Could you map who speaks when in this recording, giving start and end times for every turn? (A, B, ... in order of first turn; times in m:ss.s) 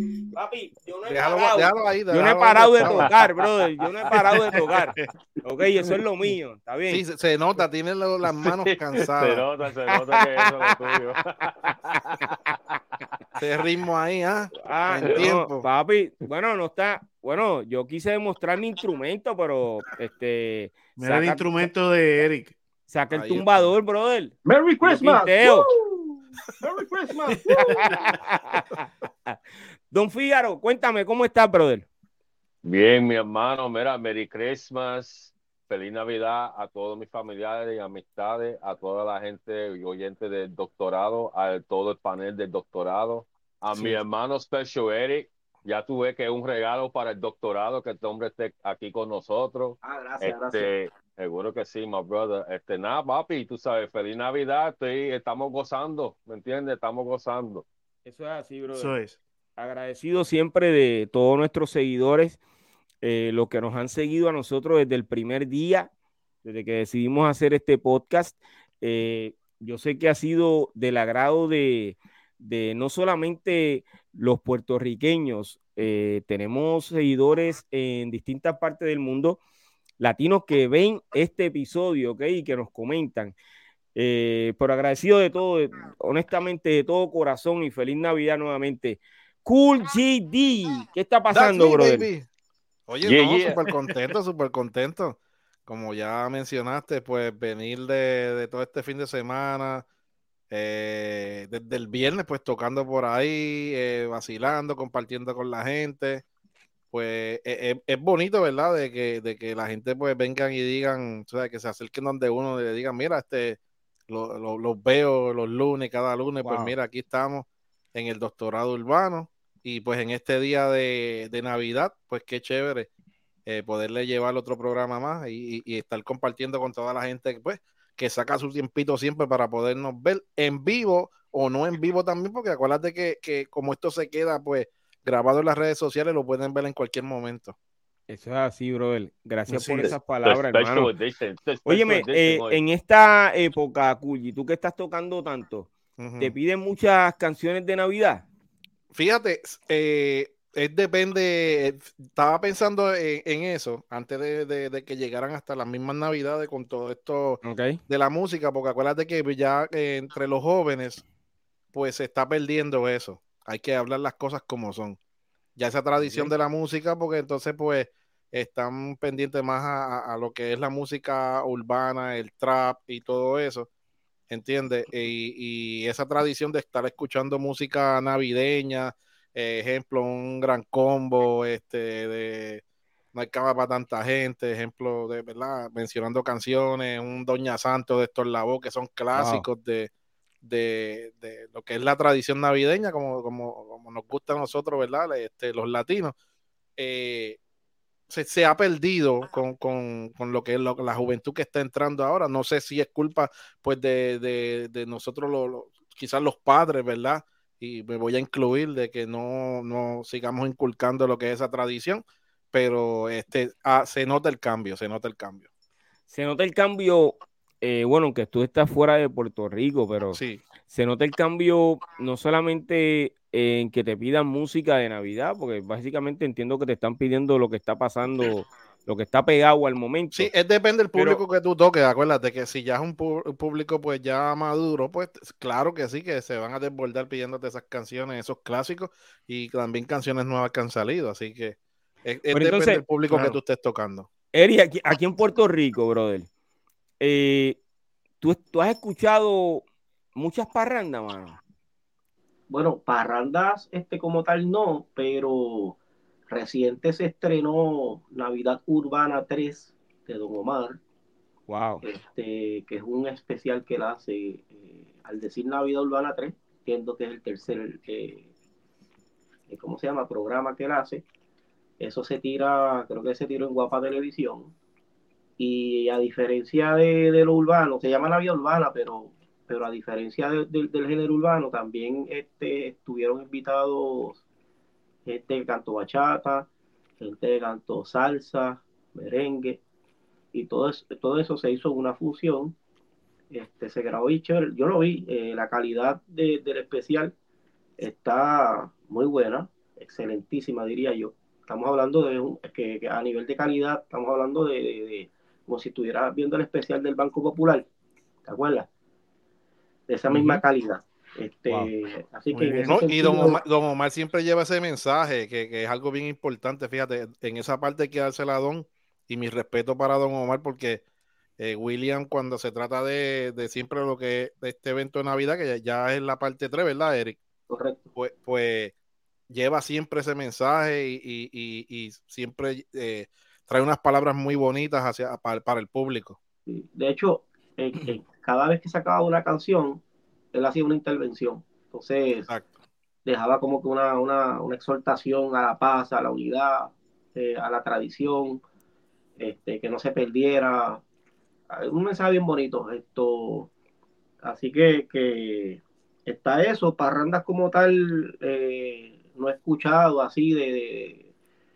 0:00.3-0:07.0 A
0:01.1-0:03.1 B
0:02.8-0:03.1 C
0:04.3-0:05.1 D
0:06.9-0:09.4 B
0:08.2-0:12.2 C
0:13.4-0:15.7 B
0:14.6-0:21.5 A
0:21.0-0:22.5 D
0:22.9-0:25.7 A
0:23.1-0:23.7 B
0:24.4-0:28.1 E
0:27.8-0:29.4 A
0:29.9-0:31.8 A
0:32.6-0:57.6 C
0:49.8-0:50.7 E
0:58.0-0:58.9 A
0:58.7-0:59.2 D
0:59.6-1:02.4 A
1:03.0-1:05.9 A
1:06.4-1:19.4 A
1:20.0-1:23.3 A
1:23.9-1:32.1 A
1:31.3-1:32.3 B
1:32.9-1:39.8 B
1:33.0-1:34.0 C
1:40.5-1:46.2 B
1:46.9-2:02.9 B
1:56.4-1:56.7 A
2:03.4-2:17.5 B
2:18.1-2:20.9 A
2:19.5-2:19.9 D
2:19.8-2:22.6 C
2:21.6-2:28.2 A
2:26.0-2:26.3 B
2:28.9-2:41.0 B
2:37.4-2:37.8 A
2:41.7-2:45.0 B
2:45.6-2:53.7 B
2:46.0-2:46.3 A
2:54.3-3:02.6 B
3:03.1-3:09.9 B
3:09.1-3:09.5 A
3:10.4-3:16.1 B
3:16.8-3:17.4 B
3:18.1-3:35.4 B
3:36.1-3:50.3 A
3:40.1-3:40.4 B
3:50.1-4:04.1 B
3:50.9-3:51.2 A
4:02.3-4:03.4 A
4:04.3-4:06.3 A
4:07.0-4:07.6 A
4:08.2-4:09.6 A
4:10.2-4:11.4 A
4:12.5-4:15.8 E
4:16.3-4:20.8 E
4:21.5-4:21.8 A
4:21.8-4:28.2 E
4:29.5-4:31.0 E
4:31.8-4:34.5 E
4:35.4-4:44.2 E
4:45.0-4:46.5 E
4:47.0-4:49.6 E
4:50.3-4:52.5 E
4:53.3-4:57.1 E
4:57.8-5:07.7 E
5:08.2-5:08.7 E
5:09.9-5:13.4 E
5:10.1-5:10.4 A
5:12.3-5:12.7 D
5:12.7-5:20.8 B
5:21.4-5:27.2 B
5:27.5-5:27.9 E
5:27.9-5:28.7 B
5:29.3-5:36.2 B
5:36.5-5:39.8 E
5:40.3-5:42.3 E
5:43.0-5:48.4 E
5:49.2-5:50.8 E
5:51.5-5:53.5 E
5:54.2-6:01.0 E